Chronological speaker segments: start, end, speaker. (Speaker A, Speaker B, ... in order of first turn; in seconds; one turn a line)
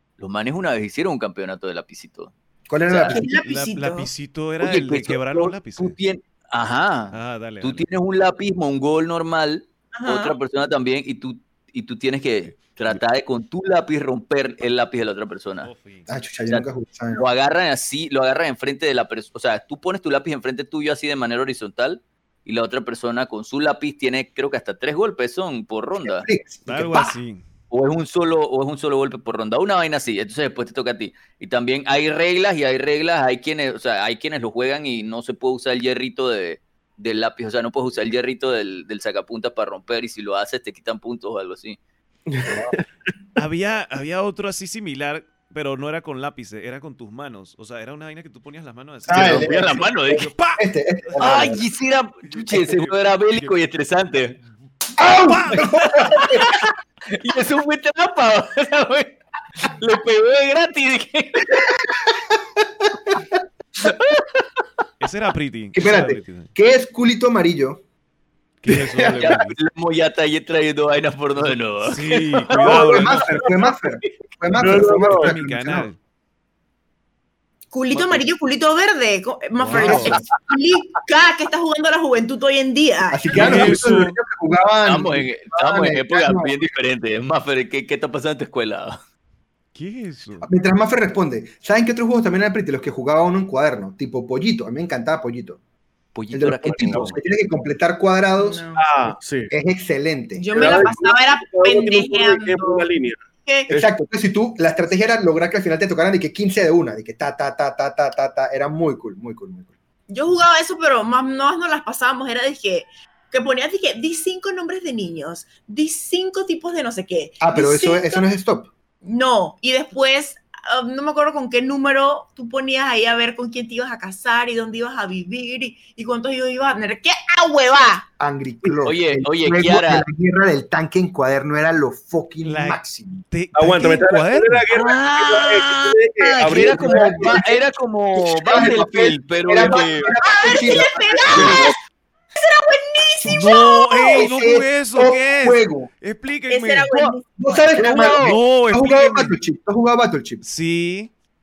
Speaker A: 0.2-2.3
Speaker B: 2.7-3.3
Speaker A: 2.9-3.2
Speaker C: 3.1-4.1
Speaker D: 3.3-6.0
Speaker A: 4.6-15.7
Speaker D: 7.1-7.9
Speaker C: 9.9-10.3
Speaker D: 15.6-16.1
Speaker B: 16.1-17.2
Speaker A: 16.5-26.3
Speaker B: 26.0-27.1
Speaker D: 26.7-27.4
Speaker A: 27.7-41.8
Speaker E: 42.3-42.8
Speaker D: 43.4-51.6
Speaker B: 49.1-51.6
Speaker A: 49.1-50.3
Speaker A: 51.2-54.4
Speaker D: 52.3-53.5
Speaker D: 55.0-55.8
Speaker B: 55.0-56.5
Speaker A: 55.5-61.6
Speaker A: 63.9-64.2
Speaker D: 65.0-66.5
Speaker B: 65.7-67.8
Speaker D: 68.6-69.6
Speaker A: 69.2-72.5
Speaker D: 71.8-73.3
Speaker B: 72.5-75.9
Speaker E: 72.8-73.5
Speaker E: 74.6-75.3
Speaker D: 75.1-76.0
Speaker C: 77.7-83.5
Speaker A: 77.9-78.2
Speaker D: 79.6-80.3
Speaker B: 79.7-80.0
Speaker B: 83.1-86.6
Speaker D: 83.3-84.2
Speaker E: 83.3-83.9
Speaker A: 84.8-89.0
Speaker D: 89.7-90.5
Speaker B: 90.4-95.6
Speaker A: 96.1-97.2
Speaker B: 96.3-98.6
Speaker E: 96.7-97.1
Speaker C: 98.3-98.9
Speaker E: 98.8-99.5
Speaker B: 99.5-101.0
Speaker C: 100.4-102.9
Speaker E: 100.5-103.9
Speaker C: 103.4-103.7
Speaker B: 103.7-109.7
Speaker C: 110.1-118.2
Speaker B: 117.4-118.7
Speaker C: 119.0-128.1
Speaker B: 128.2-133.2
Speaker A: 128.8-130.1
Speaker D: 132.4-134.7
Speaker E: 133.5-137.6
Speaker A: 134.7-140.1
Speaker B: 136.7-137.4
Speaker B: 138.4-141.7
Speaker C: 140.3-141.7
Speaker E: 141.3-141.6
Speaker C: 142.3-144.3
Speaker D: 143.2-146.9
Speaker B: 144.1-145.9
Speaker C: 146.5-148.2
Speaker A: 146.9-147.2
Speaker B: 147.4-150.4
Speaker A: 147.7-148.4
Speaker D: 148.2-149.4
Speaker D: 150.4-151.1